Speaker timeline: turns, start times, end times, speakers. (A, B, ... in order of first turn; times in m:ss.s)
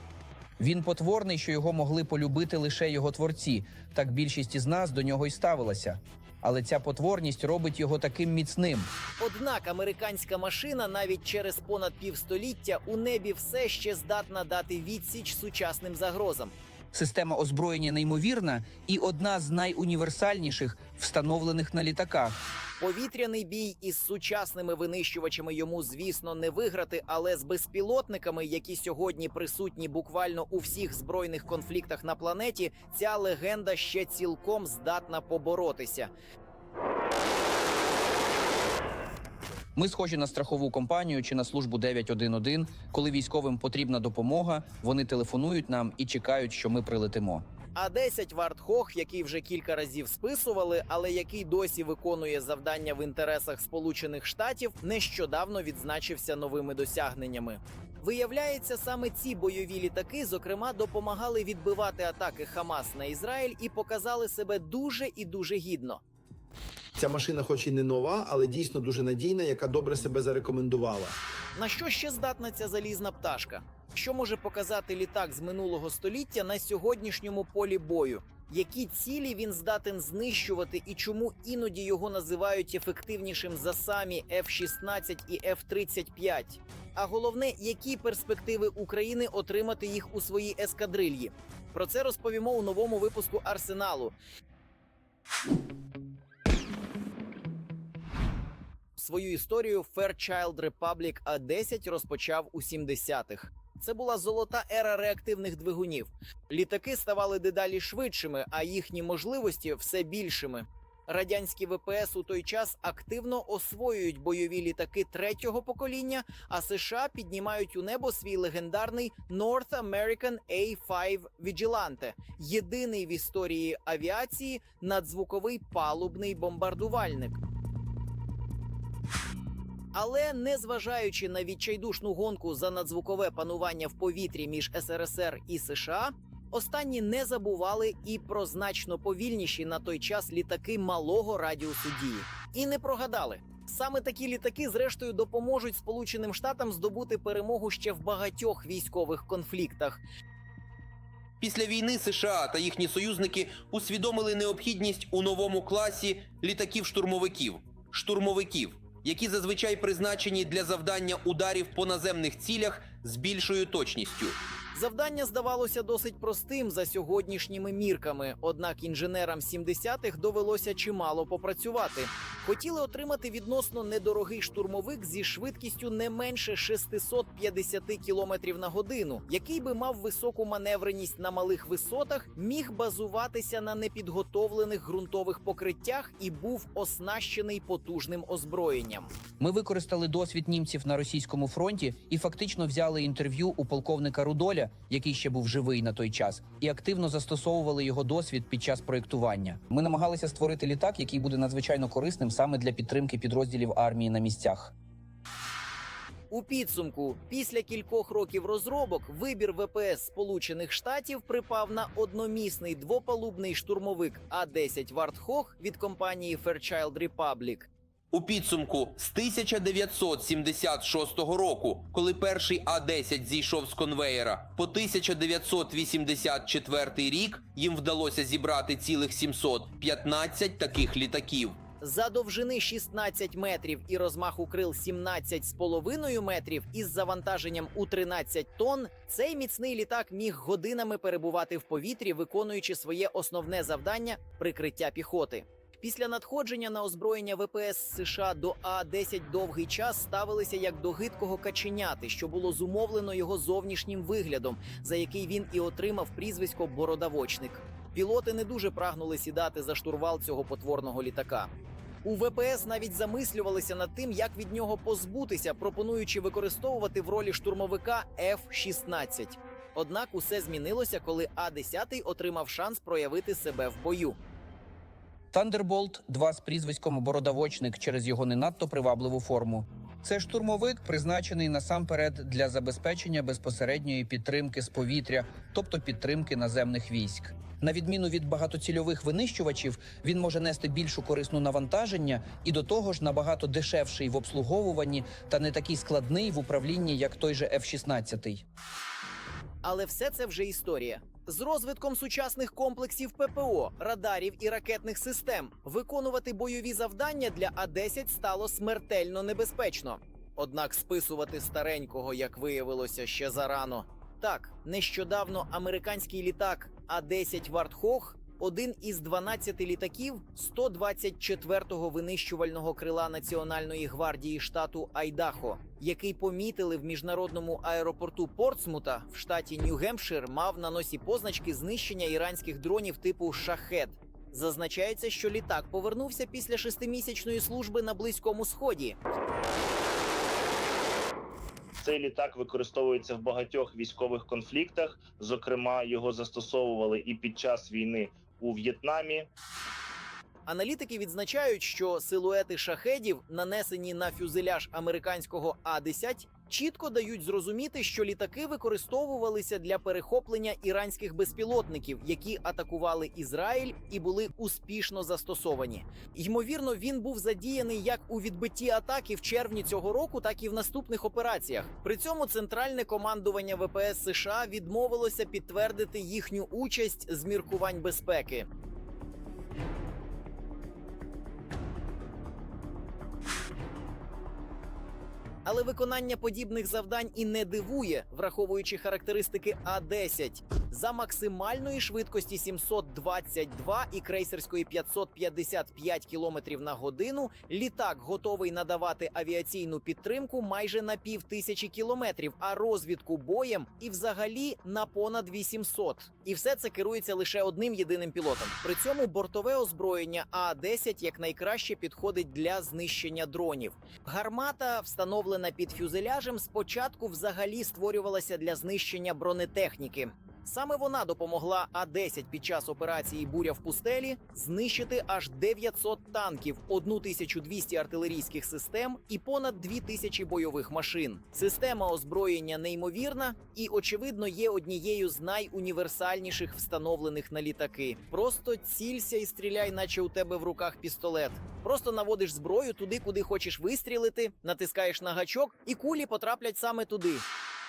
0:00.6-0:08.9 A
0:09.2-0:16.5 B
0:16.9-0:22.4 A
0:22.8-0:36.1 B
0:39.8-0:47.4 A
0:47.8-1:06.0 B
1:07.0-1:11.2 C
1:11.6-1:34.2 B
1:39.0-2:07.4 B
2:09.9-2:30.0 B
2:31.4-2:44.4 D
2:44.7-3:09.1 B
3:09.4-3:24.7 A
3:26.3-3:37.7 B
3:38.1-3:51.6 D
3:51.8-4:21.5 B
4:22.0-4:34.2 B
4:35.3-4:58.4 A
4:59.6-5:39.0 B
5:41.8-5:49.3 E
5:50.5-6:18.5 B
6:25.4-7:27.2 B